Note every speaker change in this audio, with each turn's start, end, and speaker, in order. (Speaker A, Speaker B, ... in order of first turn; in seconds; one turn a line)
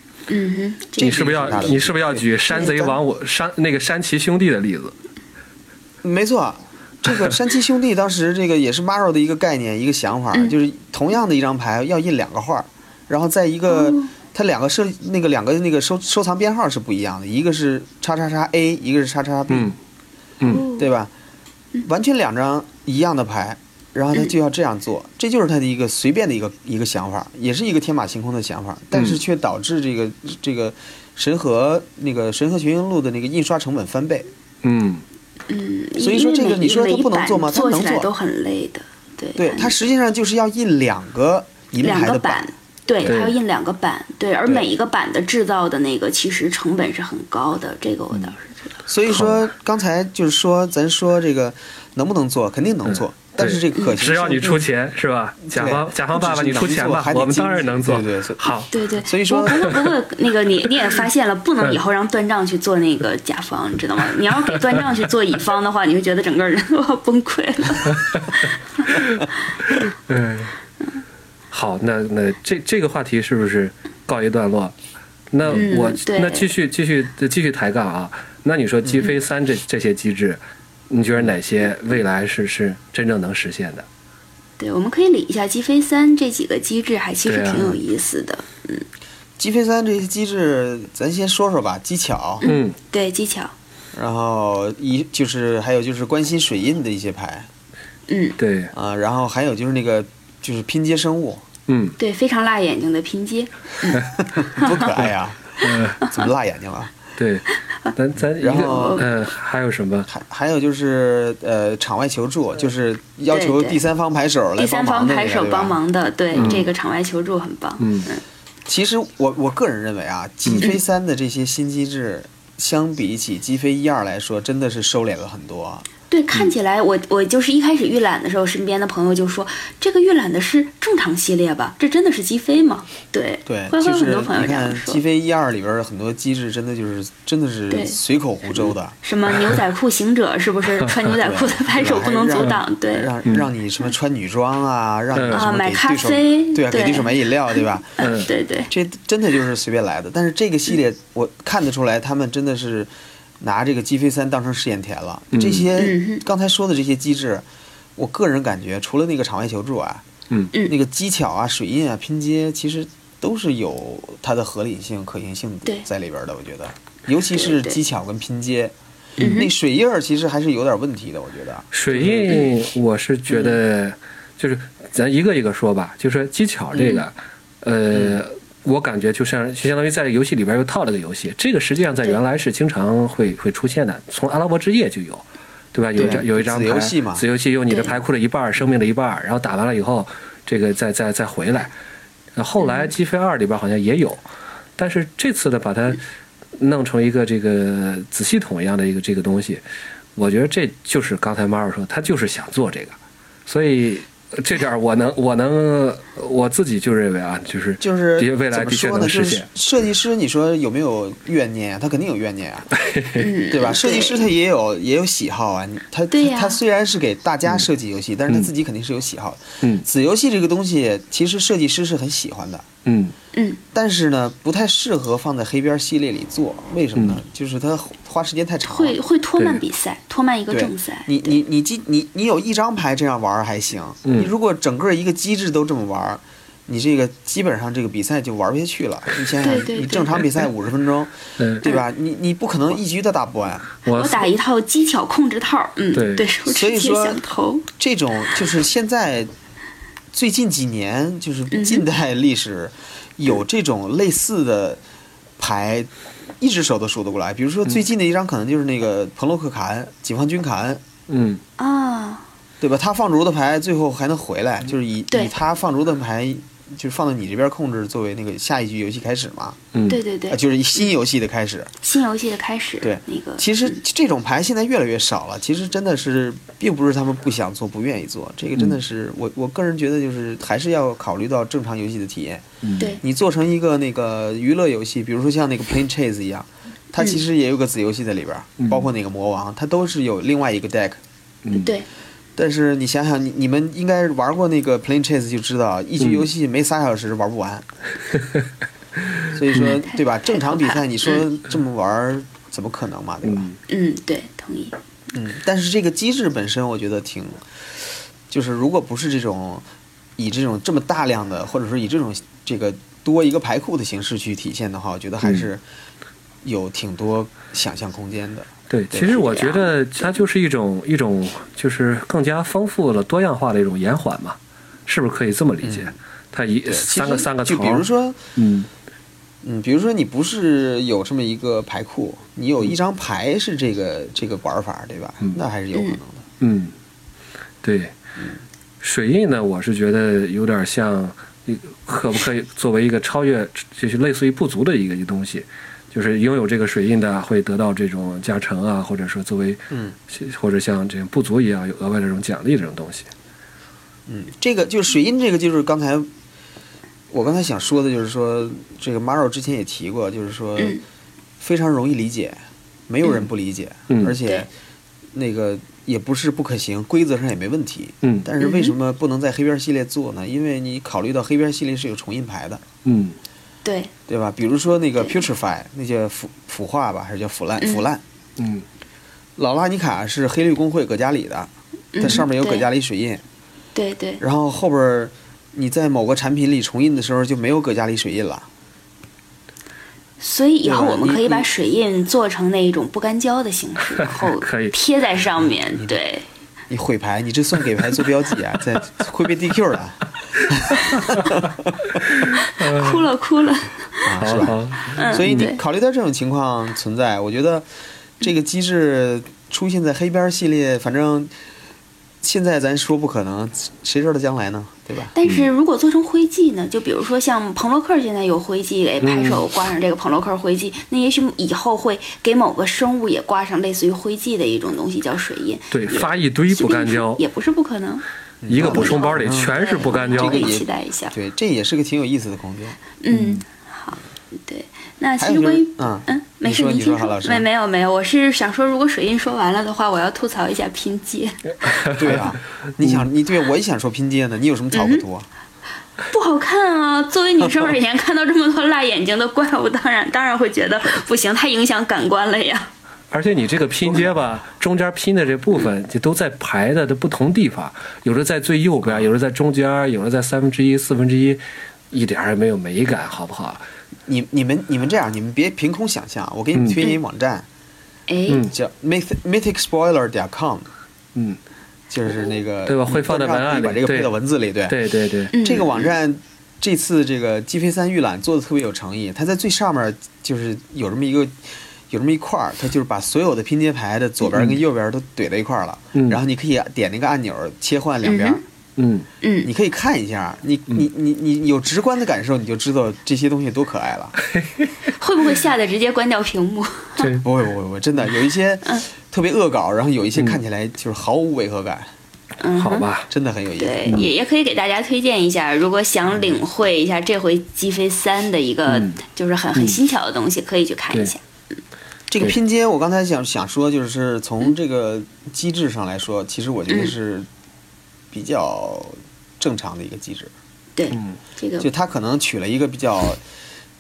Speaker A: 0.3-1.7
Speaker B: 1.0-3.0
Speaker C: 1.0-4.9
Speaker B: 6.0-19.7
Speaker A: 13.7-14.1
Speaker C: 19.5-19.8
Speaker C: 20.4-20.7
Speaker A: 20.5-20.9
Speaker B: 20.7-21.1
Speaker B: 21.8-34.3
Speaker C: 34.6-35.0
Speaker A: 35.5-39.8
Speaker B: 36.0-38.1
Speaker B: 39.4-42.4
Speaker A: 41.8-48.7
Speaker C: 43.0-43.4
Speaker B: 48.9-54.6
Speaker C: 49.1-49.5
Speaker C: 52.9-58.7
Speaker B: 55.5-59.8
Speaker A: 58.7-69.1
Speaker C: 59.5-59.9
Speaker C: 68.9-70.5
Speaker C: 71.5-74.7
Speaker C: 75.3-83.9
Speaker A: 75.5-76.5
Speaker B: 78.8-79.1
Speaker A: 84.6-88.8
Speaker C: 87.3-87.8
Speaker B: 89.4-92.4
Speaker A: 92.4-93.5
Speaker C: 92.4-92.8
Speaker B: 93.9-97.5
Speaker A: 98.1-98.4
Speaker C: 98.4-98.7
Speaker B: 98.7-101.5
Speaker C: 101.7-102.0
Speaker A: 102.0-104.9
Speaker B: 104.2-107.0
Speaker C: 105.6-106.0
Speaker C: 107.2-110.1
Speaker B: 108.4-109.1
Speaker A: 108.5-109.1
Speaker B: 110.1-115.8
Speaker A: 113.3-113.8
Speaker A: 114.6-118.2
Speaker B: 116.3-116.6
Speaker C: 116.3-116.7
Speaker C: 117.8-118.1
Speaker B: 118.7-125.9
Speaker A: 126.1-135.0
Speaker B: 133.5-139.0
Speaker A: 137.7-138.0
Speaker A: 138.6-143.1
Speaker B: 141.2-148.1
Speaker C: 145.1-145.5
Speaker A: 145.3-147.2
Speaker A: 148.0-148.7
Speaker C: 148.0-148.3
Speaker B: 148.7-157.4
Speaker C: 155.3-155.7
Speaker A: 155.8-156.2
Speaker B: 158.0-160.1
Speaker B: 160.7-172.5
Speaker A: 167.3-167.8
Speaker A: 169.2-169.5
Speaker C: 171.7-191.7
Speaker B: 177.9-178.2
Speaker B: 186.0-187.2
Speaker A: 187.7-187.9
Speaker C: 192.3-194.2
Speaker A: 192.6-192.9
Speaker C: 194.8-196.0
Speaker C: 196.6-199.6
Speaker C: 200.2-202.9
Speaker C: 203.5-209.5
Speaker B: 207.8-212.7
Speaker C: 212.7-213.3
Speaker A: 213.2-214.3
Speaker B: 213.5-222.7
Speaker A: 216.1-216.6
Speaker C: 219.6-219.9
Speaker C: 222.8-223.1
Speaker A: 223.3-223.6
Speaker B: 223.7-229.0
Speaker A: 228.6-231.4
Speaker B: 230.5-243.7
Speaker C: 234.1-234.3
Speaker A: 239.4-240.1
Speaker C: 241.4-241.7
Speaker C: 243.8-244.3
Speaker A: 243.9-247.7
Speaker C: 245.9-246.3
Speaker B: 246.5-247.2
Speaker B: 247.7-249.3
Speaker B: 250.1-254.8
Speaker A: 251.5-251.8
Speaker B: 255.4-260.9
Speaker C: 261.1-261.4
Speaker A: 261.6-262.2
Speaker B: 262.6-269.6
Speaker C: 269.7-270.0
Speaker A: 269.9-270.4
Speaker B: 270.3-271.7
Speaker A: 271.8-273.8
Speaker B: 272.8-282.4
Speaker C: 282.6-282.9
Speaker B: 283.0-291.0
Speaker C: 288.6-288.9
Speaker C: 291.4-291.7
Speaker A: 291.5-291.9
Speaker B: 292.4-297.7
Speaker C: 296.0-296.3
Speaker B: 299.3-303.5
Speaker A: 299.6-301.2
Speaker C: 303.2-303.6
Speaker A: 303.7-304.8
Speaker B: 305.1-307.4
Speaker B: 308.3-309.6
Speaker B: 310.2-315.6
Speaker B: 316.4-319.2
Speaker C: 318.7-328.7
Speaker A: 319.1-319.7
Speaker B: 325.6-325.9
Speaker B: 326.7-328.2
Speaker B: 329.4-336.3
Speaker C: 336.4-336.7
Speaker C: 337.6-337.9
Speaker C: 338.8-353.1
Speaker B: 349.7-350.0
Speaker B: 354.1-356.1
Speaker B: 357.1-360.8
Speaker B: 361.4-364.5
Speaker C: 363.9-364.2
Speaker B: 365.1-372.6
Speaker A: 368.4-368.7
Speaker C: 372.9-373.2
Speaker A: 373.6-373.9
Speaker B: 374.1-378.0
Speaker A: 377.6-377.8
Speaker C: 378.4-378.6
Speaker B: 379.4-383.2
Speaker A: 381.9-382.7
Speaker A: 383.8-384.2
Speaker B: 384.2-388.5
Speaker A: 390.2-396.2
Speaker B: 390.6-391.5
Speaker C: 394.1-394.7
Speaker B: 396.7-402.0
Speaker C: 401.0-401.2
Speaker C: 402.2-403.0
Speaker A: 402.3-405.6
Speaker B: 404.1-407.7
Speaker C: 404.2-405.5
Speaker B: 408.2-411.3
Speaker B: 412.2-415.1
Speaker A: 415.1-428.0
Speaker C: 419.0-419.4
Speaker C: 425.7-427.2
Speaker B: 428.4-432.8
Speaker C: 428.5-430.5
Speaker A: 428.6-431.1
Speaker A: 433.0-441.4
Speaker C: 433.1-433.4
Speaker B: 435.2-437.5
Speaker C: 441.8-443.0
Speaker B: 441.9-445.3
Speaker A: 444.7-445.0
Speaker A: 446.1-452.7
Speaker C: 453.1-463.6
Speaker B: 453.9-454.2
Speaker B: 464.1-467.5
Speaker C: 466.6-466.8
Speaker A: 468.1-468.4
Speaker C: 468.3-468.5
Speaker B: 468.5-470.7
Speaker B: 471.9-474.8
Speaker C: 472.7-474.1
Speaker C: 474.7-475.3
Speaker A: 475.3-475.9
Speaker B: 475.3-488.4
Speaker C: 485.9-486.2
Speaker A: 488.1-488.4
Speaker C: 488.8-489.1
Speaker A: 489.2-489.5
Speaker B: 489.4-494.2
Speaker C: 494.3-494.7
Speaker A: 495.0-497.1
Speaker C: 497.0-497.3
Speaker B: 497.2-501.9
Speaker A: 502.4-502.9
Speaker C: 502.6-503.1
Speaker B: 503.1-504.0
Speaker A: 503.6-511.2
Speaker C: 508.7-509.0
Speaker B: 512.1-517.3
Speaker B: 518.1-520.3
Speaker A: 520.8-521.7
Speaker C: 520.9-521.2
Speaker B: 521.6-523.2